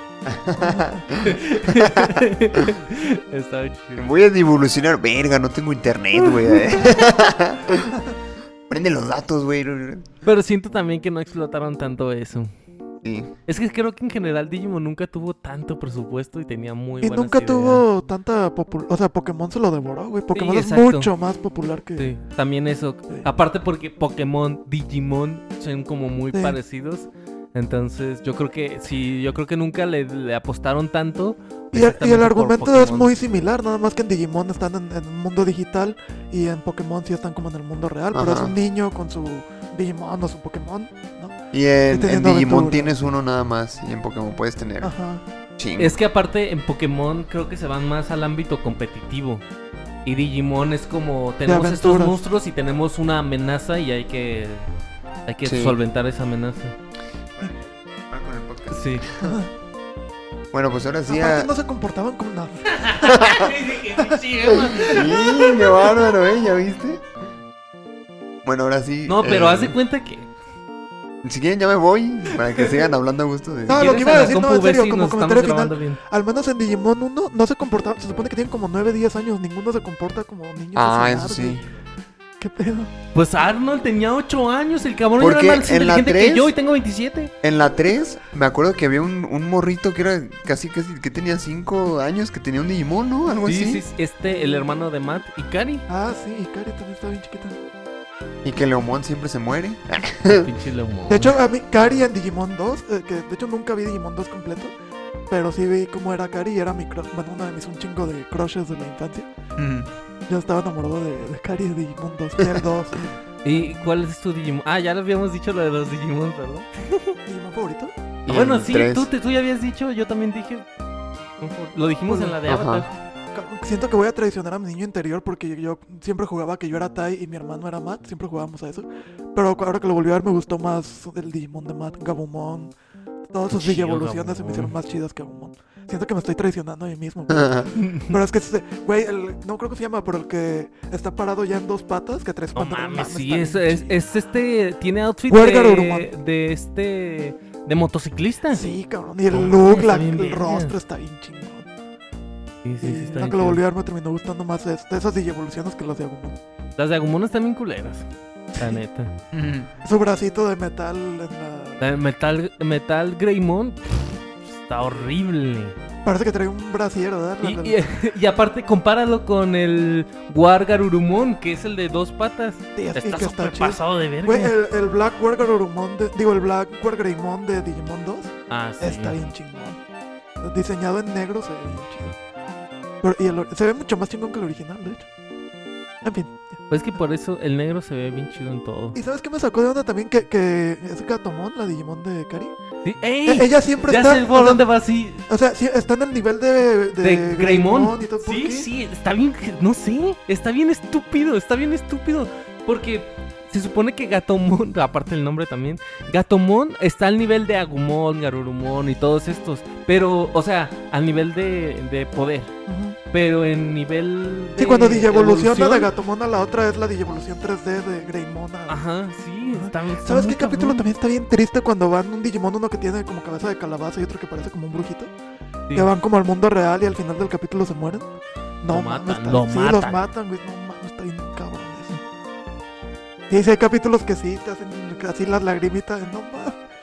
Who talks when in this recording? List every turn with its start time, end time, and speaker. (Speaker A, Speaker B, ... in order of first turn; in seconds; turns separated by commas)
Speaker A: 0.3-2.0, Speaker B: 0.6-1.0, Speaker C: 1.2-4.1, Speaker A: 4.0-7.9, Speaker A: 8.7-10.1, Speaker C: 10.2-12.5, Speaker A: 13.0-13.3, Speaker C: 13.4-17.8, Speaker B: 17.0-22.1, Speaker C: 20.3-21.1, Speaker C: 21.9-33.1, Speaker B: 26.3-26.6, Speaker B: 31.7-41.4, Speaker A: 38.1-38.5, Speaker A: 41.5-44.9, Speaker B: 41.9-43.0, Speaker B: 44.8-45.2, Speaker A: 45.6-46.0, Speaker C: 45.8-49.4, Speaker C: 50.0-54.7, Speaker B: 51.4-52.2, Speaker C: 55.2-56.7, Speaker A: 55.4-55.8, Speaker A: 57.3-59.3, Speaker C: 58.7-59.1, Speaker B: 59.2-59.5, Speaker A: 60.5-61.5, Speaker B: 61.0-65.0, Speaker C: 62.7-65.7, Speaker A: 64.8-67.0, Speaker A: 68.4-69.8, Speaker C: 69.0-70.3, Speaker A: 71.2-74.0, Speaker B: 72.6-72.8, Speaker B: 73.7-81.6, Speaker C: 73.7-76.0, Speaker A: 80.7-81.7, Speaker B: 82.4-82.9, Speaker C: 83.1-87.3, Speaker A: 85.2-86.5, Speaker A: 87.4-93.8, Speaker C: 93.4-95.8, Speaker B: 95.9-97.6, Speaker A: 98.4-100.5, Speaker C: 100.2-101.4, Speaker B: 101.1-104.7, Speaker B: 105.3-109.3, Speaker A: 109.6-109.9, Speaker B: 110.3-113.1, Speaker C: 113.4-117.1, Speaker B: 117.3-117.9, Speaker A: 118.2-119.1, Speaker C: 118.3-120.7, Speaker C: 121.4-122.9, Speaker B: 122.1-122.4, Speaker A: 122.5-122.9, Speaker B: 123.3-132.7, Speaker B: 133.3-144.0, Speaker C: 133.5-134.7, Speaker A: 137.3-137.7, Speaker C: 137.7-138.2, Speaker C: 142.5-148.7, Speaker B: 145.3-146.1, Speaker B: 148.5-151.7, Speaker C: 149.3-150.7, Speaker C: 152.6-153.6, Speaker B: 152.8-156.4, Speaker C: 156.8-159.1, Speaker A: 159.3-159.7, Speaker B: 159.8-161.9, Speaker C: 161.8-165.8, Speaker B: 164.8-165.1, Speaker B: 166.0-167.8, Speaker C: 167.4-174.5, Speaker B: 172.7-179.8, Speaker C: 178.5-179.2, Speaker B: 180.4-182.2, Speaker B: 183.0-185.1, Speaker B: 186.0-186.6, Speaker C: 186.7-189.0, Speaker B: 188.9-192.5, Speaker C: 192.8-195.2, Speaker B: 193.2-194.7, Speaker B: 195.3-198.7, Speaker C: 197.0-212.5, Speaker B: 212.7-213.0, Speaker C: 213.1-215.9, Speaker B: 214.6-218.8, Speaker C: 218.7-220.8, Speaker B: 219.5-225.1, Speaker B: 225.7-228.1, Speaker B: 228.6-232.0, Speaker C: 228.7-230.0, Speaker B: 233.3-236.6